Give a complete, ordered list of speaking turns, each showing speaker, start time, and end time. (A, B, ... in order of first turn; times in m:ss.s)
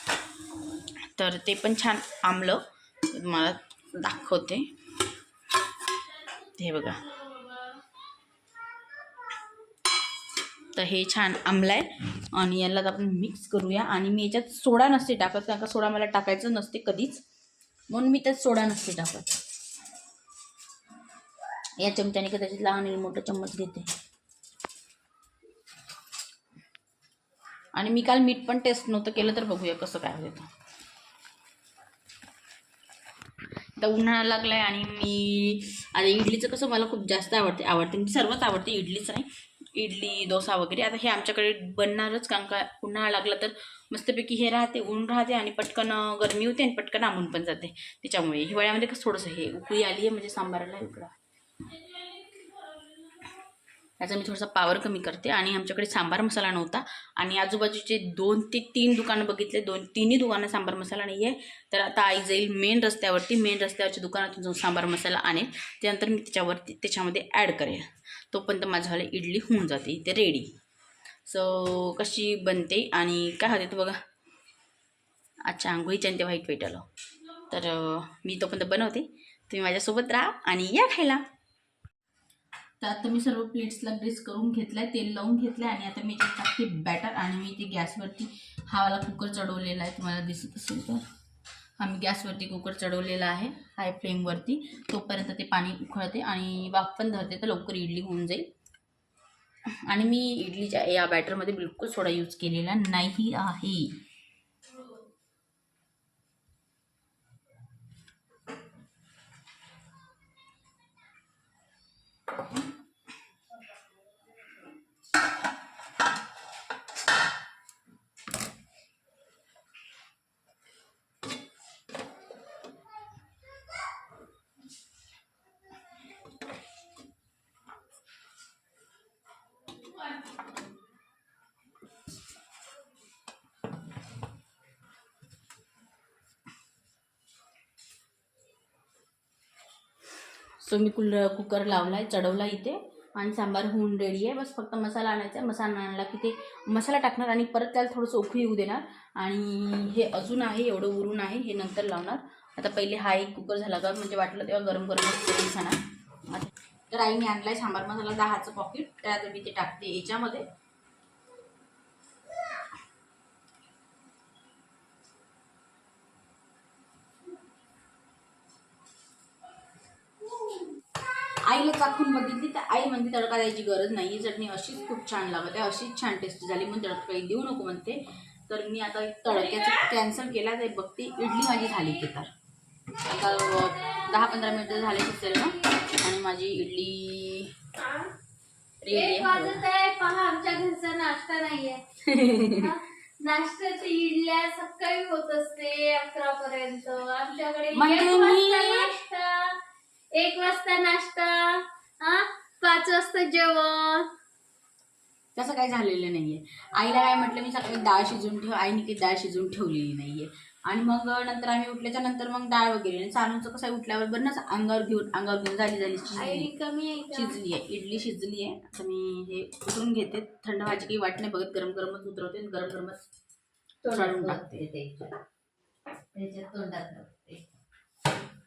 0:01.1-0:04.7 A
0:06.4-0:07.2 A
0:10.7-0:17.2 A
0:17.9-0:19.4 A
0:21.8-0:23.9 A
0:27.7-0:30.5 A
0:33.8-0:51.1 A
0:54.0-1:10.5 A
1:11.3-1:14.0 A
1:15.4-1:16.9 A
1:17.5-1:21.2 A
1:22.8-1:31.0 A
1:31.8-1:38.5 A
1:39.8-1:44.0 A
2:20.6-2:40.5 A
2:51.4-3:02.3 A
3:03.0-3:07.5 A
3:03.1-3:05.9 B
3:07.8-3:08.1 B
3:08.8-3:09.6 A
3:08.9-3:11.8 B
3:12.0-3:12.7 A
3:12.4-3:19.6 B
3:17.7-3:18.9 A
3:20.1-3:24.1 B
3:25.3-3:36.5 A
3:36.2-3:37.4 B
3:37.1-3:43.0 A
3:43.8-3:45.1 B
3:43.9-3:44.6 A
3:46.1-3:47.4 B